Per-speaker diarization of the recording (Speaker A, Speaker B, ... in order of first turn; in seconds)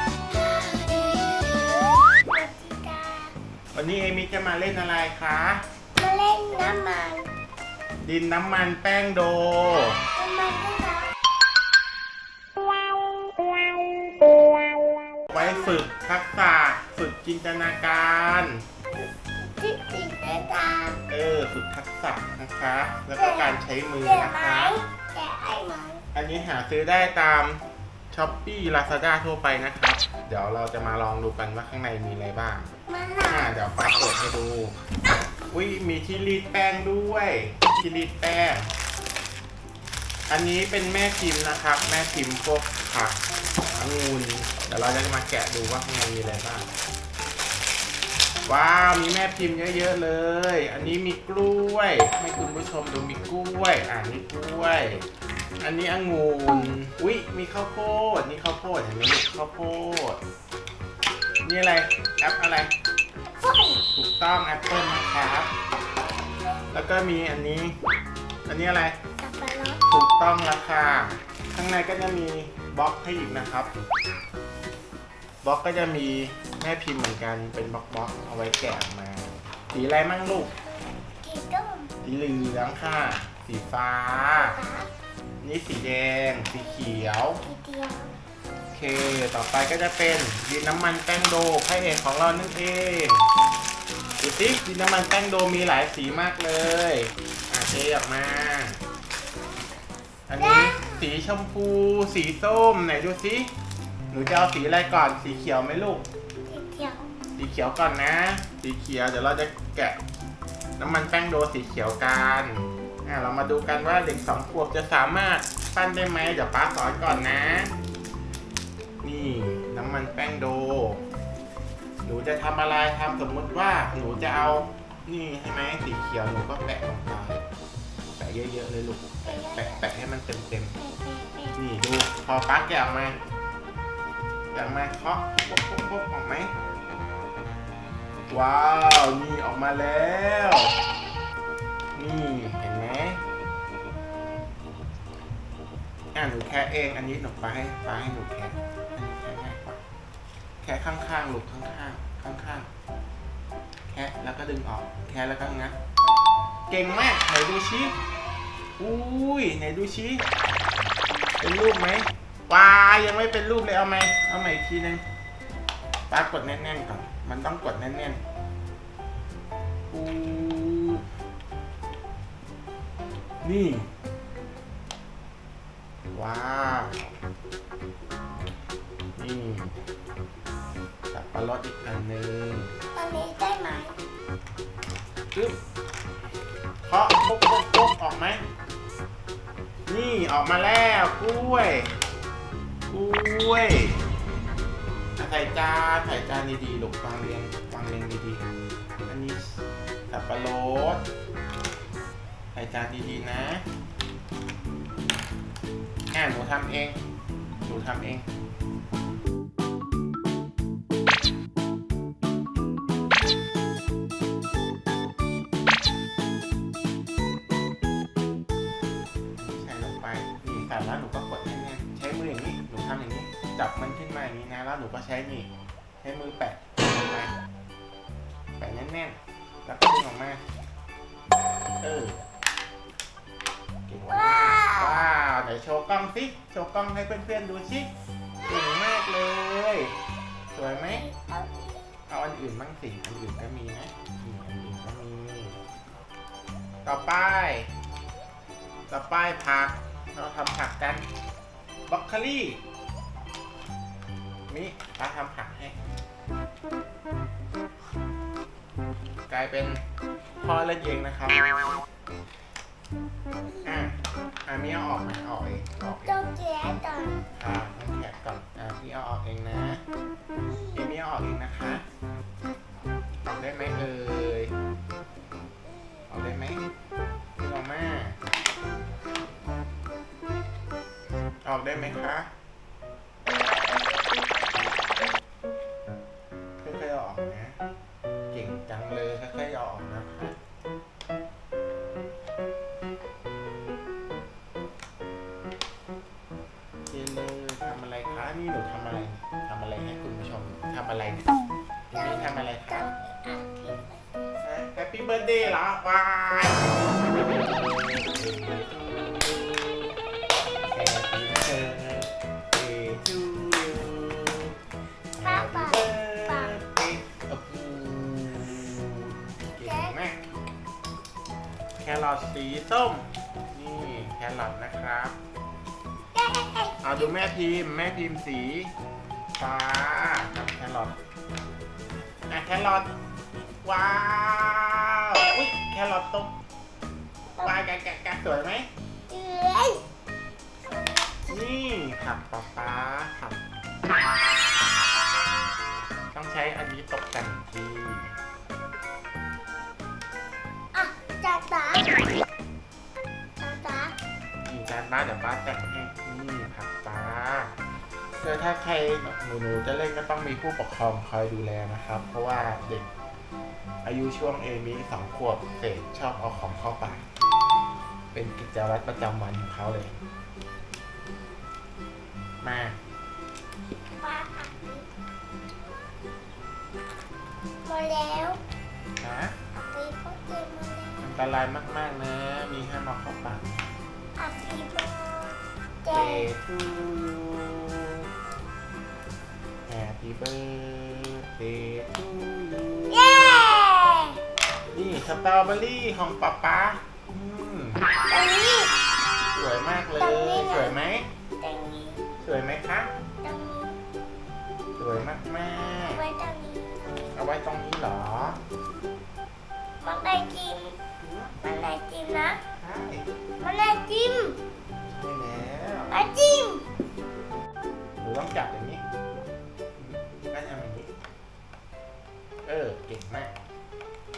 Speaker A: 0.2-3.3, 6.0-7.3, 10.0-11.1, 15.3-15.8, 18.9-21.0, 23.1-26.0, 32.9-33.6, 63.2-63.8, 66.3-66.7, 69.2-69.8, 81.2-81.9, 84.3-84.9, 87.4-88.1, 99.0-99.8, 100.3-101.1, 106.5-107.1, 129.2-129.8, 130.8-131.6, 182.9-184.0, 234.1-235.1, 240.6-241.9, 266.0-267.3, 270.5-270.9, 301.9-304.0, 315.2-316.6, 319.5-319.9, 326.1-327.2, 337.4-337.6, 339.1-339.8, 340.7-341.2, 350.7-352.0, 353.4-353.9, 374.0-374.9, 377.6-378.4, 379.5-381.0, 384.2-386.3, 392.9-394.2, 398.1-398.8, 400.0-400.8, 401.4-402.1, 403.2-403.8, 405.9-406.8, 409.8-410.8, 411.4-412.4, 413.4-414.4, 415.9-416.6
Speaker B: 3.7-5.6, 8.0-10.0, 15.3-18.6, 21.1-24.7, 26.1-32.7, 33.3-34.8, 35.5-38.7, 40.3-43.2, 43.7-46.7, 48.5-55.0, 55.6-60.2, 61.4-62.7, 63.9-65.5, 66.7-67.8, 68.5-69.0, 69.9-73.7, 75.4-80.5, 82.0-84.6, 85.4-87.4, 88.7-93.2, 94.2-98.8, 100.3-103.5, 104.1-106.0, 107.3-110.0, 110.8-117.7, 119.0-121.0, 122.0-127.4, 128.2-130.8, 131.5-133.2, 134.5-136.5, 138.3-140.8, 141.9-143.2, 146.1-149.8, 150.6-152.7, 153.9-155.8, 156.7-158.0, 158.8-160.2, 161.4-165.0, 166.1-168.2, 169.9-171.0, 173.4-173.9, 176.1-177.1, 179.2-179.8, 181.1-182.7, 186.8-188.4, 189.9-191.9, 192.9-194.0, 195.2-198.4, 199.1-201.0, 202.5-203.6, 206.1-207.0, 207.6-208.3, 219.4-225.5, 226.0-227.3, 228.6-230.4, 231.8-232.2, 233.9-237.9, 238.4-239.9, 240.5-241.0, 242.1-245.6, 246.8-247.7, 248.9-251.0, 251.9-252.6, 254.5-255.8, 259.3-259.8, 260.4-261.4, 263.6-266.2, 267.3-269.8, 270.7-271.8, 273.2-274.5, 276.1-276.6, 277.4-278.2, 281.4-282.3, 286.6-287.6, 288.3-290.3, 296.9-301.3, 301.9-302.9, 304.4-308.8, 310.7-314.5, 315.2-320.2, 321.8-325.2, 326.8-328.7, 329.4-331.0, 332.3-332.9, 333.6-336.3, 337.4-338.7, 341.3-343.4, 346.1-348.1, 354.4-357.5, 358.2-362.9, 363.8-367.0, 368.1-369.9, 372.4-372.8, 379.0-379.4, 381.0-383.6, 385.9-387.9, 389.6-393.1, 394.7-397.8, 399.4-401.1, 402.2-402.9, 404.8-406.0, 407.1-408.4, 411.0-411.4, 412.5-413.1, 414.9-416.0, 418.0-418.8, 419.8-420.9, 422.4-423.3